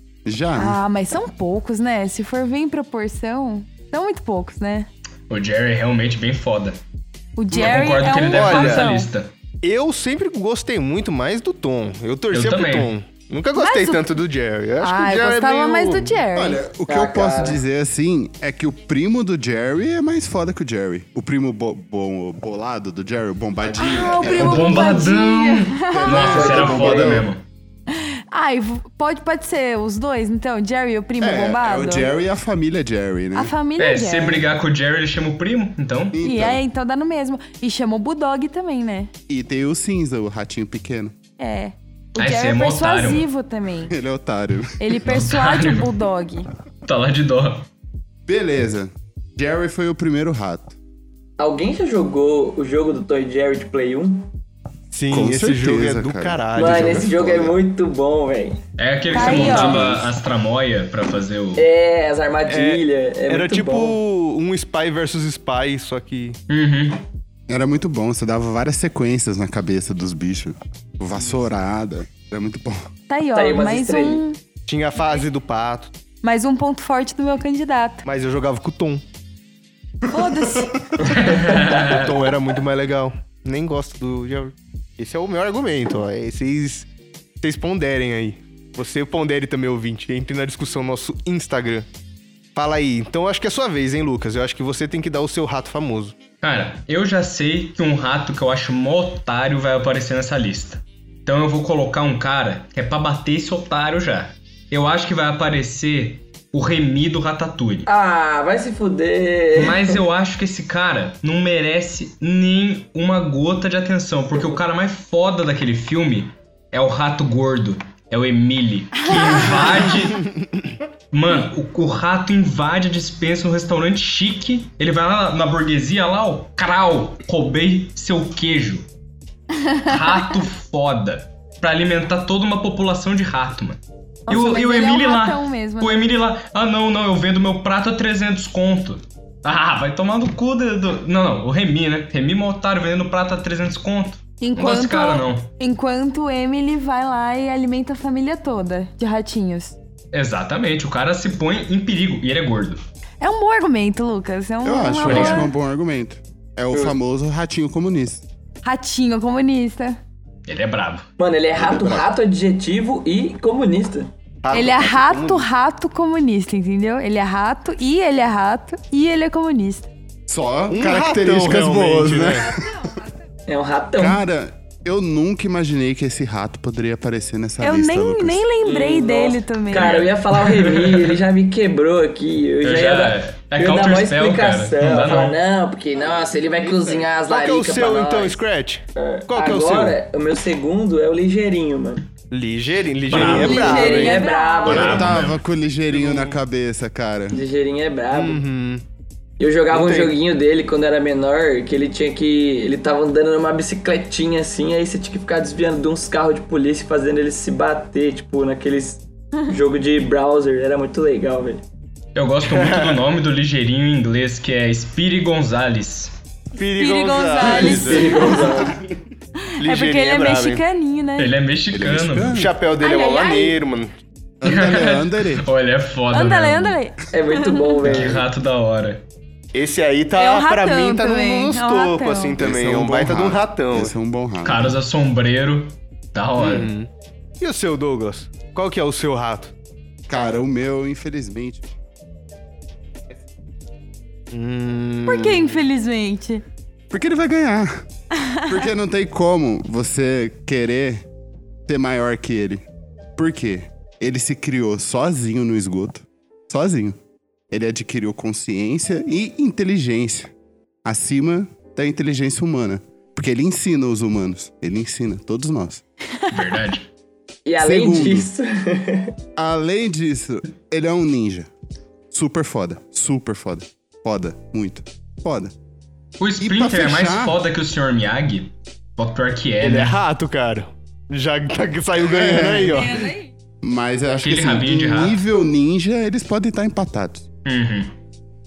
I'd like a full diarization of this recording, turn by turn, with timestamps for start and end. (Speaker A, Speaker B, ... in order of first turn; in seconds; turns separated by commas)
Speaker A: 0.2-0.8, Speaker B: 0.6-4.9, Speaker C: 5.3-6.8, Speaker B: 7.4-9.1, Speaker C: 7.5-9.3, Speaker D: 7.6-8.9, Speaker D: 9.6-16.2, Speaker C: 12.3-12.9, Speaker B: 13.6-14.1, Speaker B: 14.8-16.6, Speaker A: 16.3-25.1, Speaker E: 16.9-17.6, Speaker B: 23.8-26.5, Speaker C: 24.2-27.4, Speaker A: 25.9-27.3, Speaker E: 26.1-27.2, Speaker B: 27.9-32.1, Speaker A: 31.2-33.5, Speaker B: 33.4-34.5, Speaker C: 33.8-36.2, Speaker A: 36.1-36.6, Speaker B: 36.2-39.1, Speaker A: 39.3-41.1, Speaker B: 41.4-44.0, Speaker C: 42.2-43.3, Speaker A: 43.9-44.9, Speaker B: 44.8-46.5, Speaker C: 45.0-45.9, Speaker C: 46.9-47.7, Speaker A: 48.3-50.8, Speaker E: 51.4-54.3, Speaker D: 54.9-57.1, Speaker A: 55.1-57.6, Speaker E: 56.5-58.6, Speaker C: 58.8-61.7, Speaker B: 59.1-59.9, Speaker A: 59.2-60.1, Speaker E: 61.6-64.0, Speaker D: 62.5-66.4, Speaker C: 66.5-67.0, Speaker A: 67.5-72.9, Speaker B: 73.1-74.4, Speaker E: 73.3-74.2, Speaker D: 74.7-75.9, Speaker B: 76.2-78.0, Speaker D: 78.1-79.0, Speaker B: 80.1-80.8, Speaker E: 81.1-81.8, Speaker C: 81.1-82.1, Speaker D: 81.4-86.9, Speaker D: 87.4-91.9, Speaker D: 92.5-96.2, Speaker C: 96.4-107.9, Speaker E: 107.9-110.0, Speaker C: 109.5-120.2, Speaker C: 121.1-128.8, Speaker C: 129.8-145.5, Speaker B: 134.3-136.0, Speaker B: 144.4-149.8, Speaker C: 150.1-152.8, Speaker B: 153.2-155.5, Speaker A: 154.6-158.2, Speaker C: 155.0-155.5, Speaker B: 158.6-160.0, Speaker C: 160.5-161.1, Speaker E: 161.2-164.1, Speaker A: 161.6-162.1, Speaker D: 164.4-165.5, Speaker B: 164.5-169.9, Speaker A: 170.3-172.9, Speaker D: 170.7-172.5, Speaker E: 173.5-174.2, Speaker A: 174.0-178.4, Speaker B: 177.6-179.9, Speaker E: 178.6-188.4, Speaker C: 179.7-181.2, Speaker C: 182.6-185.4, Speaker D: 187.3-190.0, Speaker E: 189.0-192.1, Speaker D: 192.3-194.2, Speaker C: 193.1-193.9, Speaker E: 193.1-195.1, Speaker B: 193.2-195.1, Speaker C: 194.6-195.4, Speaker A: 194.7-197.4, Speaker D: 195.9-196.4, Speaker E: 197.3-198.4, Speaker D: 198.1-198.8, Speaker E: 199.4-211.6, Speaker D: 199.7-200.2, Speaker C: 212.2-216.1, Speaker D: 212.4-213.0, Speaker D: 216.6-218.5, Speaker B: 216.7-218.6, Speaker E: 217.4-218.8, Speaker B: 219.5-221.3, Speaker D: 219.6-220.6, Speaker C: 221.2-222.4, Speaker A: 221.7-222.5, Speaker D: 222.3-223.9, Speaker B: 222.8-223.6, Speaker A: 224.4-225.5, Speaker C: 224.4-226.8, Speaker B: 226.1-227.8, Speaker E: 227.1-228.3, Speaker C: 227.8-229.0, Speaker D: 229.5-233.9, Speaker B: 230.2-232.4, Speaker A: 232.4-234.8, Speaker C: 234.4-236.7, Speaker D: 236.4-236.9, Speaker D: 237.4-239.5, Speaker A: 240.1-241.7, Speaker D: 244.3-245.5, Speaker B: 245.1-246.4, Speaker A: 246.9-247.8, Speaker B: 248.2-248.5, Speaker A: 248.5-251.1, Speaker A: 251.7-252.6, Speaker A: 253.2-257.0, Speaker A: 257.5-260.3, Speaker A: 260.9-265.8, Speaker C: 266.3-266.9, Speaker E: 267.5-269.1, Speaker A: 267.6-268.3, Speaker A: 269.4-271.5, Speaker A: 272.1-275.5, Speaker C: 276.2-280.0, Speaker A: 276.4-277.4, Speaker D: 279.6-283.1, Speaker A: 282.0-282.9, Speaker B: 282.7-283.3, Speaker A: 283.6-287.3, Speaker C: 284.2-285.2, Speaker C: 287.4-287.9